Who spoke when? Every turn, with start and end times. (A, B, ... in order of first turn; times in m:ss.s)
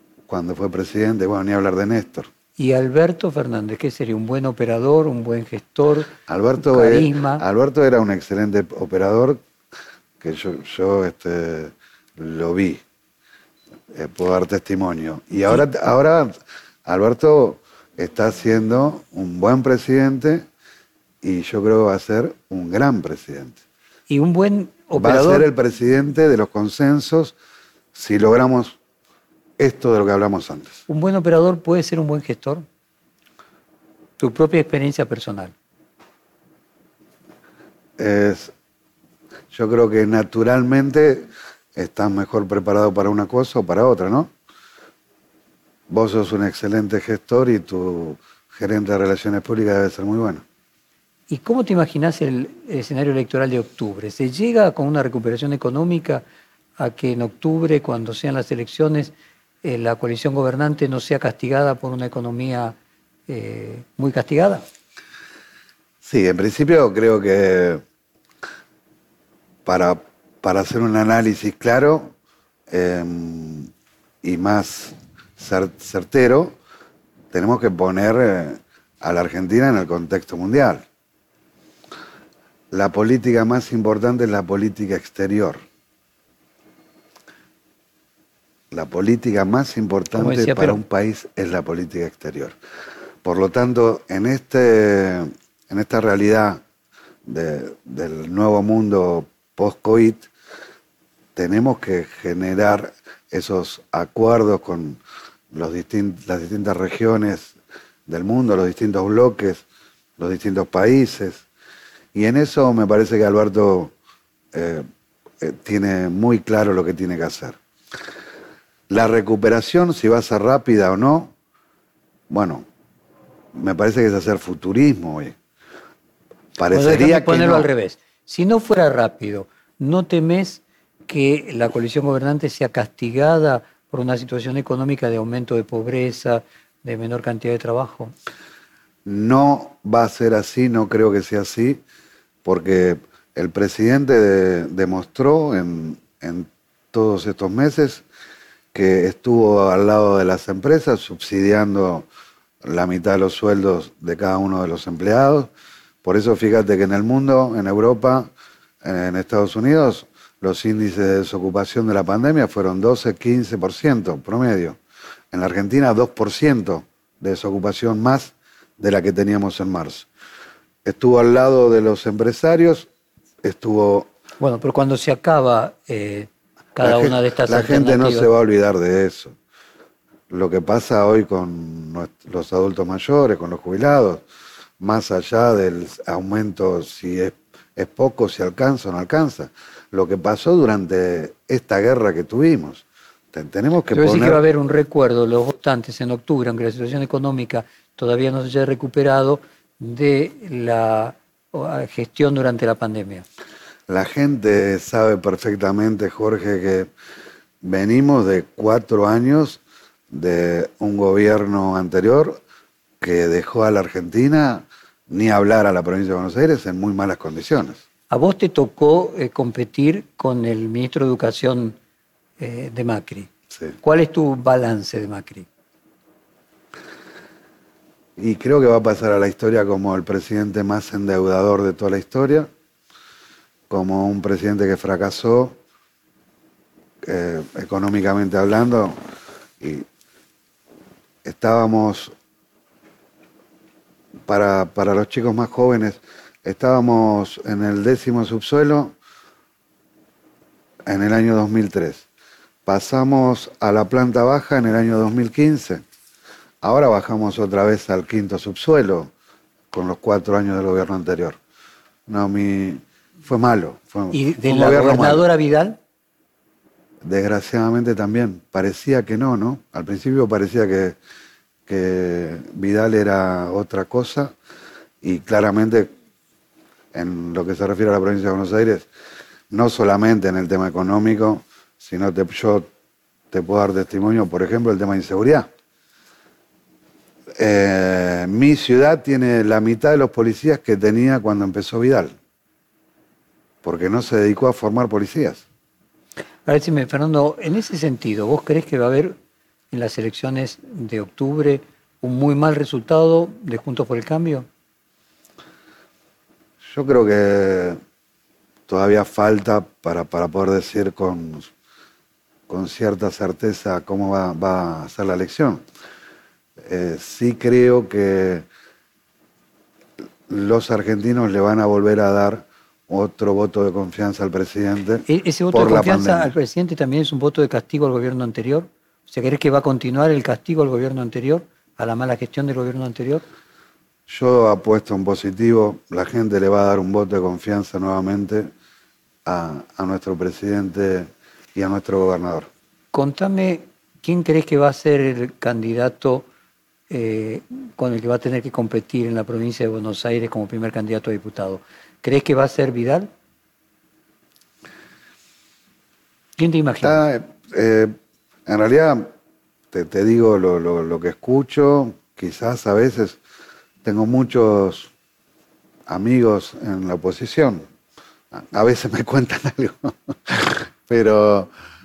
0:00.3-0:02.3 A
0:02.6-0:07.4 B
0:06.3-0:09.4 A
0:10.2-0:12.8 A
0:13.9-0:20.4 A
0:21.2-0:23.6 A
0:24.1-0:25.5 B
0:25.0-0:27.4 A
0:27.9-0:28.8 A
0:29.6-0:30.8 A
0:30.9-0:32.7 B
0:34.2-0:35.5 B
0:38.0-0:38.5 A
0:39.5-0:44.3 A
0:45.9-0:50.4 A
0:51.3-0:56.2 B
0:56.8-1:02.8 B
1:03.3-1:04.6 B
1:06.0-1:07.8 A
1:09.6-1:12.1 A
1:12.7-1:13.7 A
1:14.2-1:16.6 A
1:17.3-1:20.8 A
1:22.7-1:25.6 A
1:28.7-1:32.6 A
1:30.2-1:30.8 B
1:33.2-1:36.6 A
1:37.3-1:40.3 A
1:41.4-1:45.0 A
1:45.5-1:47.6 A
1:48.1-1:49.6 A
1:50.2-1:51.4 A
1:52.1-1:53.9 A
1:54.5-1:54.9 A
1:55.4-1:57.6 A
1:58.9-2:01.3 A
2:02.3-2:02.7 A
2:03.5-2:05.4 A
2:06.6-2:07.7 A
2:06.7-2:18.1 B
2:19.1-2:21.8 A
2:22.4-2:28.0 A
2:28.7-2:32.1 A
2:32.6-2:35.5 A
2:36.0-2:38.3 A
2:38.8-2:44.8 A
2:45.3-2:50.1 A
2:50.8-2:52.9 A
2:53.4-2:54.1 A
2:54.4-2:58.3 B
2:56.8-2:59.4 A
3:00.3-3:04.2 A
3:04.8-3:14.4 A
3:13.9-3:23.2 B
3:23.9-3:26.9 A
3:27.6-3:32.4 A
3:33.0-3:37.8 A
3:38.1-3:41.8 B
3:42.4-3:43.3 B
3:43.8-3:45.5 B
3:48.2-3:52.5 A
3:53.7-3:55.6 A
3:57.0-3:59.0 A
3:59.6-3:59.9 A
4:01.2-4:02.1 A
4:04.3-4:09.0 A
4:10.9-4:12.0 A
4:12.7-4:15.8 A
4:16.6-4:19.1 A
4:19.7-4:21.4 A
4:22.1-4:25.3 A
4:24.1-4:25.8 B
4:27.0-4:31.0 A
4:31.7-4:34.3 A
4:35.0-4:35.9 A
4:36.9-4:38.9 A
4:39.5-4:42.7 A
4:43.3-4:45.5 A
4:47.4-4:52.2 A
4:53.6-4:55.4 A
4:56.5-4:59.2 B
4:59.7-5:04.5 B
5:06.6-5:07.8 A
5:08.7-5:11.5 A
5:12.5-5:15.6 A
5:16.6-5:18.5 A
5:20.3-5:26.3 A
5:25.1-5:33.2 B
5:34.1-5:38.5 A
5:39.2-5:42.5 A
5:42.9-5:46.3 B
5:46.9-5:53.1 B
5:56.4-5:57.0 B
5:56.8-5:58.0 A
5:58.5-5:59.1 A
5:59.7-6:03.2 A
6:03.8-6:04.9 A
6:05.9-6:07.6 A
6:08.3-6:11.5 A